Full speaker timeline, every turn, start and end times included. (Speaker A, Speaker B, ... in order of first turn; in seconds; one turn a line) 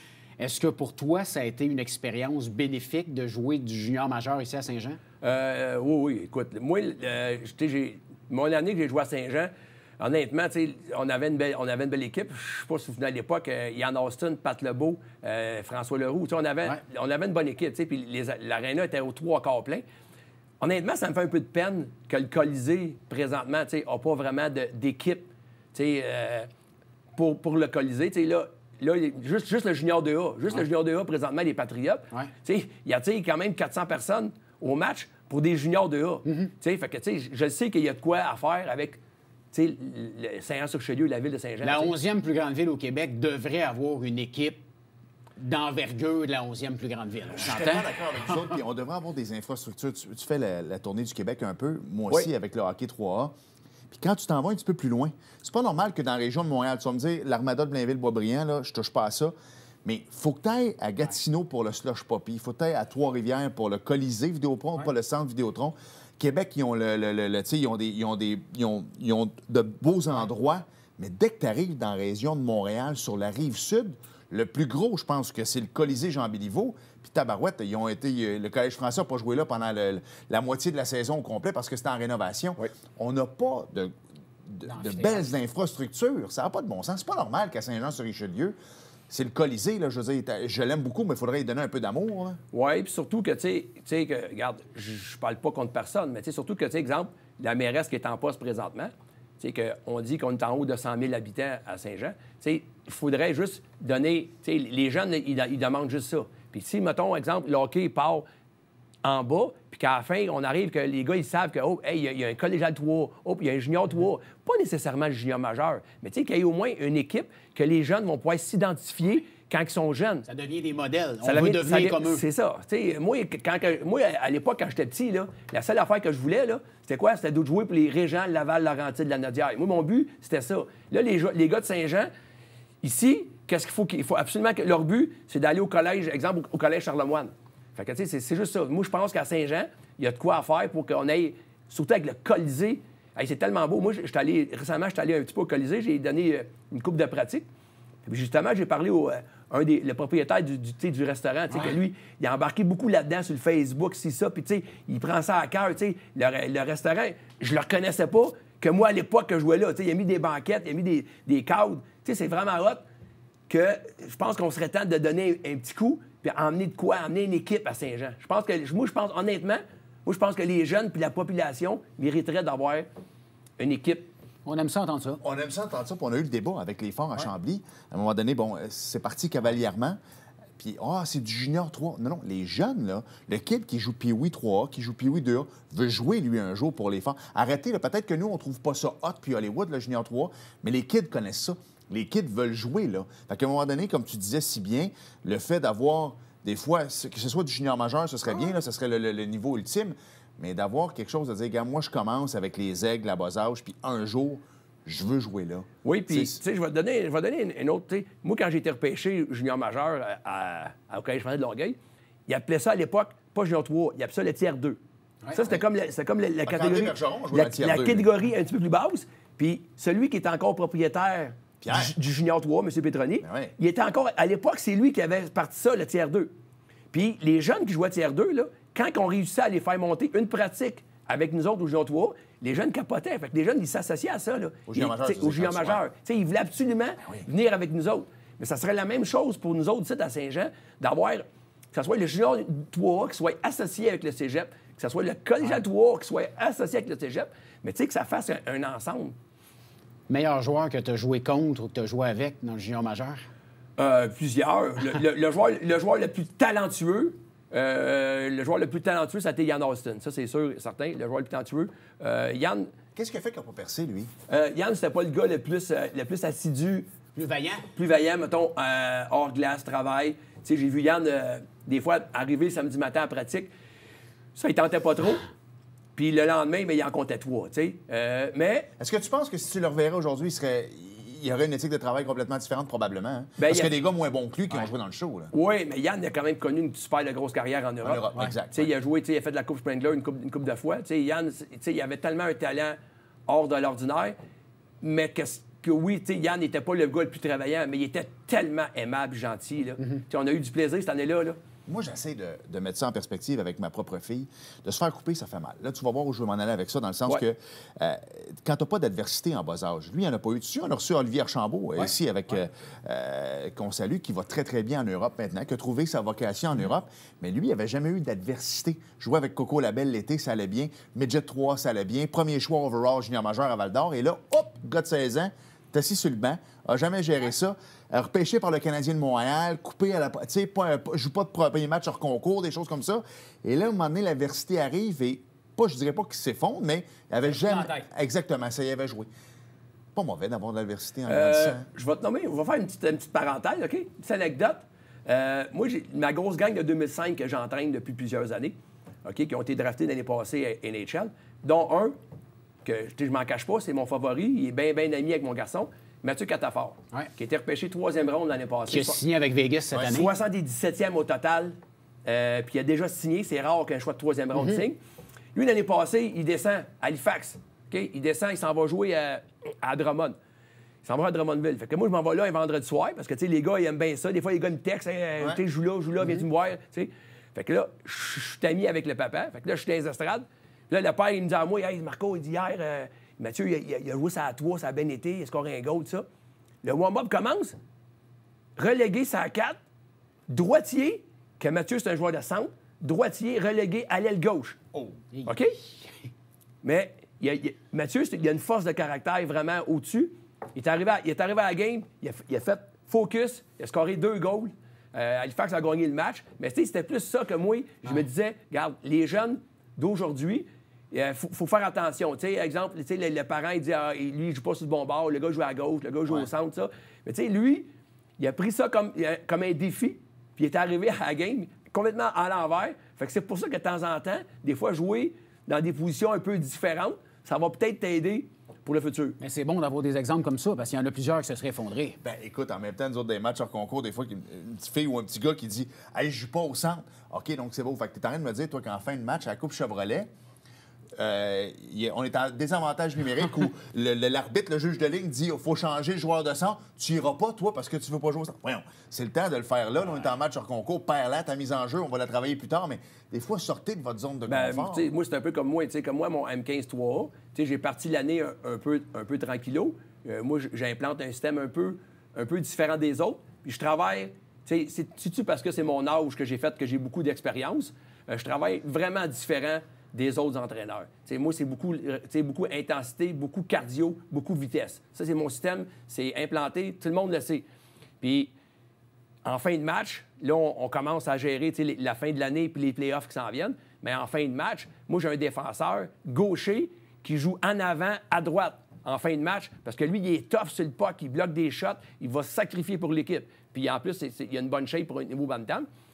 Speaker A: 0.4-5.0
Speaker B: 5.2-19.8
Speaker B: 20.6-26.5
Speaker B: 27.1-39.0
Speaker A: 36.3-36.5
Speaker B: 39.5-41.9
Speaker A: 41.6-44.6
Speaker A: 45.4-48.6
Speaker C: 47.3-53.4
Speaker C: 53.9-59.3
Speaker C: 59.9-83.9
Speaker C: 84.5-88.6
Speaker A: 84.7-85.3
Speaker C: 89.1-92.4
Speaker B: 92.5-108.3
Speaker B: 109.0-120.3
Speaker A: 120.3-122.2
Speaker B: 121.2-132.1
Speaker B: 132.8-147.5
Speaker B: 148.1-162.8
Speaker B: 163.5-172.9
Speaker B: 173.6-174.1
Speaker A: 174.5-175.2
Speaker C: 175.2-180.0
Speaker C: 180.6-206.4
Speaker B: 205.8-214.8
Speaker B: 215.3-226.3
Speaker C: 216.4-218.1
Speaker C: 221.6-221.9
Speaker C: 223.2-223.6
Speaker B: 226.9-249.2
Speaker C: 234.7-235.8
Speaker A: 250.1-253.3
Speaker B: 253.8-262.7
Speaker C: 262.9-264.1
Speaker B: 264.3-266.9
Speaker A: 267.1-267.7
Speaker B: 267.8-273.5
Speaker B: 274.4-275.3
Speaker B: 276.0-278.7
Speaker C: 278.8-285.3
Speaker B: 283.4-283.7
Speaker B: 285.3-292.8
Speaker C: 287.8-288.7
Speaker B: 293.3-294.1
Speaker B: 294.8-301.4
Speaker C: 301.7-339.1
Speaker A: 337.3-337.9
Speaker C: 339.9-341.7
Speaker B: 341.1-352.0
Speaker B: 352.6-359.0
Speaker A: 358.7-360.1
Speaker B: 359.8-364.8
Speaker A: 364.4-364.6
Speaker B: 365.4-370.2
Speaker B: 370.8-386.1
Speaker B: 386.6-387.6
Speaker B: 388.6-389.6
Speaker B: 390.3-394.6
Speaker A: 395.1-396.1
Speaker B: 395.3-395.6
Speaker B: 396.6-429.2
Speaker A: 429.2-432.0
Speaker C: 432.0-440.1
Speaker C: 440.9-454.9
Speaker B: 454.3-477.5
Speaker B: 478.0-478.3
Speaker B: 479.2-495.7